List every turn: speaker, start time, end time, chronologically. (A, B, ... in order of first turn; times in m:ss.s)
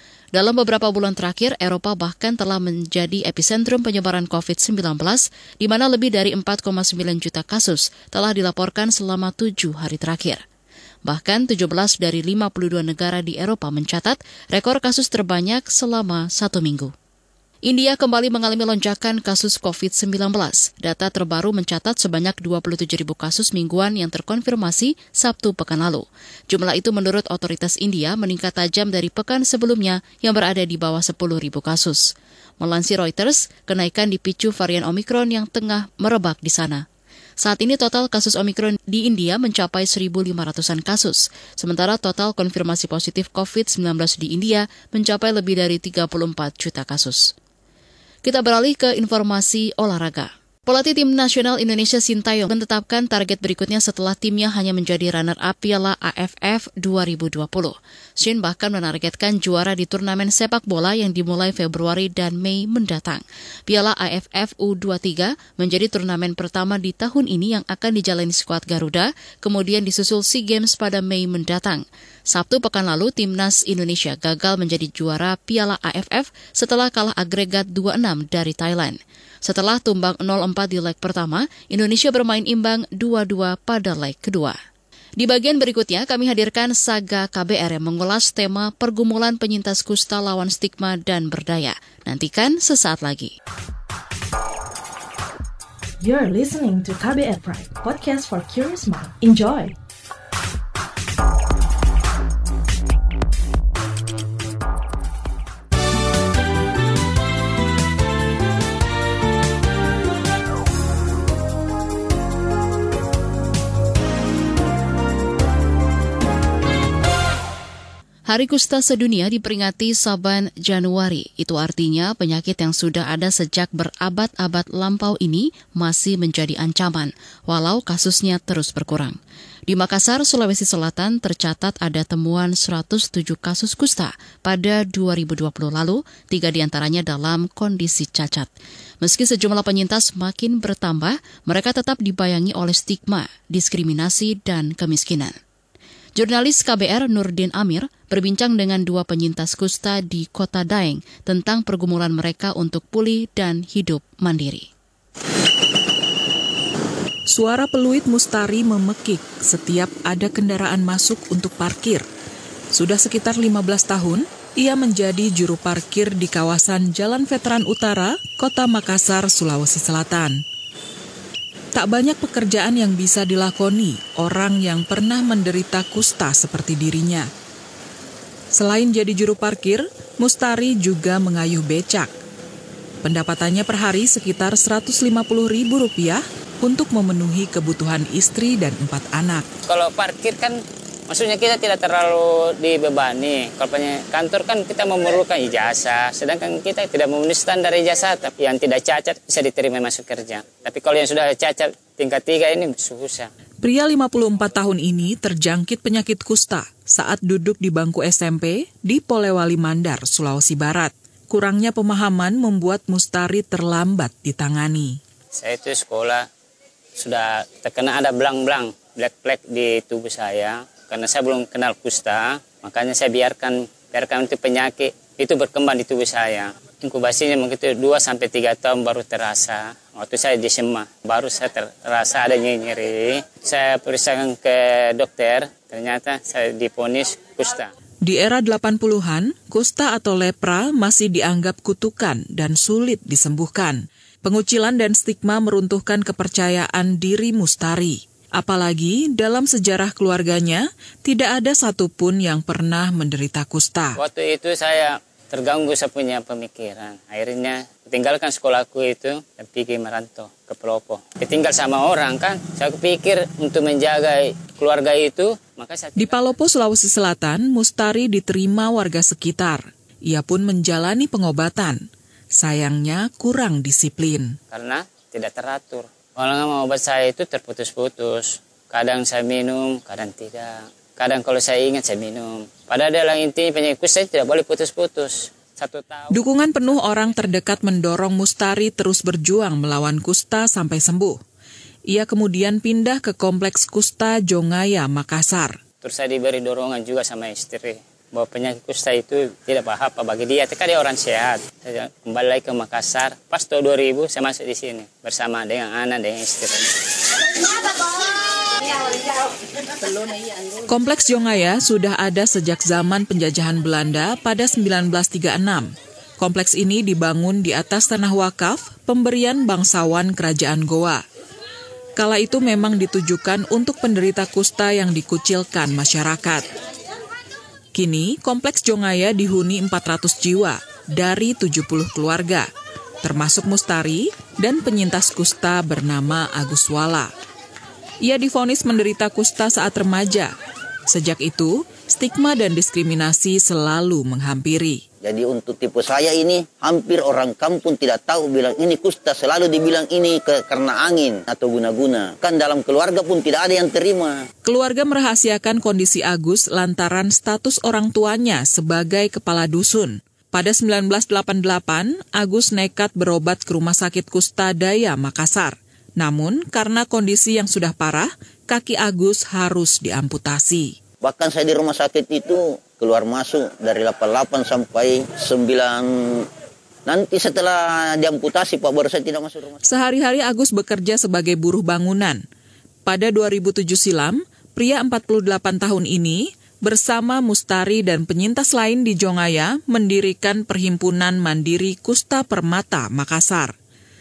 0:00.3-0:10.4 A
0:11.0-0:16.9 A
0:17.6-0:36.8 A
0:37.4-0:47.3 A
0:48.2-1:24.6 A
1:25.2-1:33.3 A
1:36.0-1:39.7 B
1:58.3-2:18.5 A
2:19.0-2:25.4 A
2:26.2-2:34.7 A
2:37.3-2:42.0 C
2:42.7-2:50.4 C
2:51.7-2:57.3 C
2:58.5-3:02.1 C
3:03.0-3:09.5 C
3:09.7-3:23.3 D
3:23.6-3:35.0 C
3:35.3-3:36.3 D
3:37.0-3:57.7 D
3:58.0-4:14.0 C
4:14.0-4:26.3 D
4:26.0-4:34.4 C
4:34.5-4:46.1 D
4:46.1-4:51.2 C
4:51.9-4:55.6 C
4:55.8-5:06.7 D
5:10.7-5:21.0 C
5:22.0-5:26.4 C
5:27.7-5:32.5 C
5:33.0-5:37.1 C
5:38.0-5:40.3 C
5:40.9-5:44.8 C
5:45.0-5:54.2 E
5:54.4-6:10.7 C
6:11.0-6:16.2 E
6:16.9-6:19.6 E
6:19.6-6:22.2 C
6:22.8-6:33.5 C